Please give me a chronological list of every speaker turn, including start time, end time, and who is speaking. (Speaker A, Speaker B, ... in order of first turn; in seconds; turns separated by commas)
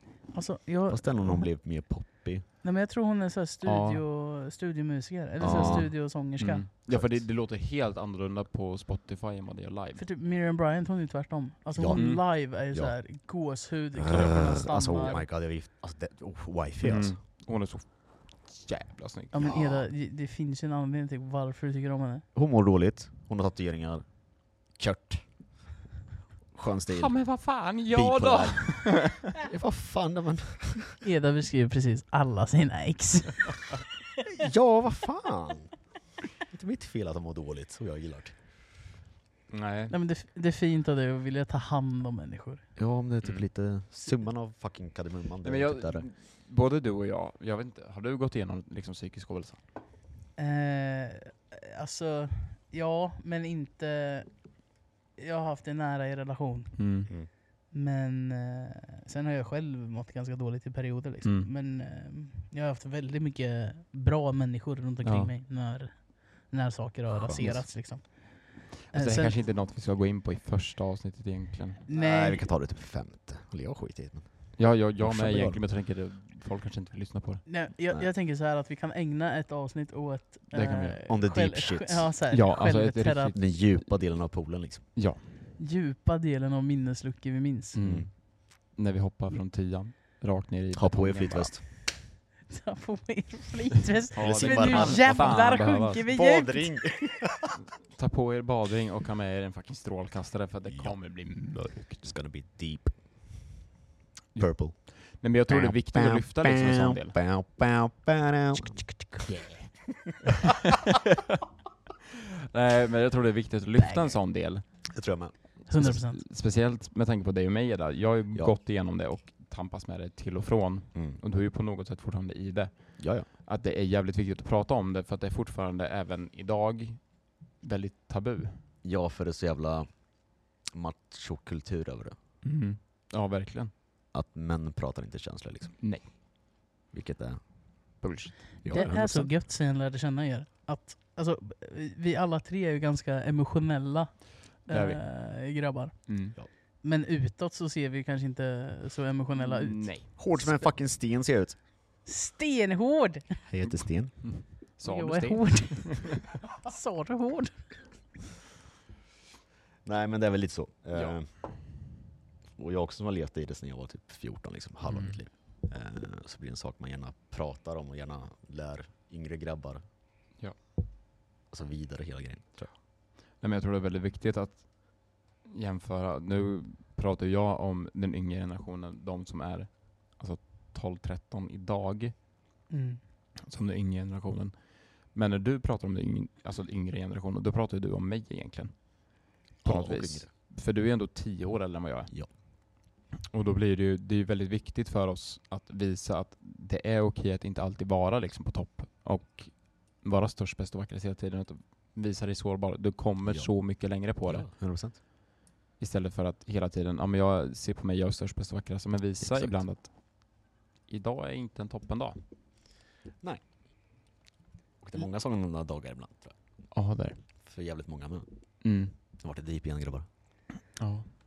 Speaker A: 0.3-1.5, Speaker B: 0.9-2.5, Speaker A: 2.6-6.7, Speaker C: 3.6-4.0, Speaker B: 5.4-6.1, Speaker C: 5.5-10.0, Speaker B: 6.9-7.2, Speaker A: 10.0-15.3, Speaker B: 11.8-13.0, Speaker C: 11.9-12.2, Speaker B: 14.0-17.2, Speaker C: 16.8-19.4, Speaker A: 19.3-22.2, Speaker B: 19.4-19.9, Speaker B: 22.4-24.1, Speaker B: 24.6-25.2, Speaker B: 26.5-31.0, Speaker C: 26.9-29.3, Speaker A: 31.0-33.8, Speaker B: 34.3-35.9, Speaker B: 36.5-38.4, Speaker C: 39.5-39.9, Speaker A: 39.9-42.7, Speaker B: 42.8-46.0, Speaker C: 45.4-49.6, Speaker A: 50.4-54.4, Speaker A: 55.2-56.8, Speaker C: 56.8-57.1, Speaker A: 57.7-69.4, Speaker C: 61.2-61.5, Speaker C: 65.0-65.3, Speaker B: 67.1-67.7, Speaker C: 68.9-71.8, Speaker A: 71.9-72.5, Speaker B: 71.9-75.6, Speaker C: 74.6-77.5, Speaker A: 77.5-83.3, Speaker C: 80.5-81.0, Speaker B: 81.1-82.1, Speaker C: 82.3-84.0, Speaker B: 83.3-84.8, Speaker C: 85.0-85.2, Speaker A: 85.6-87.8, Speaker C: 87.7-91.6, Speaker B: 87.8-88.1, Speaker B: 90.7-91.6, Speaker A: 92.5-96.8, Speaker C: 94.1-96.1, Speaker B: 94.2-97.5, Speaker C: 97.9-102.1, Speaker B: 102.0-103.0, Speaker C: 104.3-107.2, Speaker B: 104.4-104.9, Speaker B: 105.5-108.8, Speaker C: 109.2-111.4, Speaker C: 112.2-114.9, Speaker A: 113.8-114.2, Speaker B: 114.9-115.6, Speaker C: 115.7-128.6, Speaker A: 115.7-116.2, Speaker B: 120.9-121.2, Speaker B: 123.0-123.3, Speaker B: 128.8-132.2, Speaker C: 132.4-133.7, Speaker B: 134.1-136.2, Speaker C: 135.8-136.1, Speaker B: 136.9-137.5, Speaker C: 138.0-138.6, Speaker B: 138.6-139.3, Speaker A: 138.7-150.5, Speaker C: 144.7-145.1, Speaker C: 146.1-146.4, Speaker C: 149.4-150.6, Speaker B: 150.2-151.6, Speaker A: 152.1-153.4, Speaker B: 153.5-154.2, Speaker C: 154.2-156.2, Speaker A: 154.8-157.7, Speaker B: 159.8-161.3, Speaker B: 162.6-169.8, Speaker C: 164.8-165.2, Speaker B: 171.5-172.7, Speaker C: 173.3-182.2, Speaker A: 182.7-183.0, Speaker C: 183.4-192.4, Speaker B: 189.6-190.3, Speaker C: 193.3-204.5, Speaker B: 203.2-205.0, Speaker C: 205.8-212.2, Speaker B: 209.2-209.6, Speaker B: 214.8-216.3, Speaker C: 216.7-217.2, Speaker B: 217.4-218.3, Speaker C: 218.6-218.9, Speaker B: 219.1-220.1, Speaker C: 220.8-221.1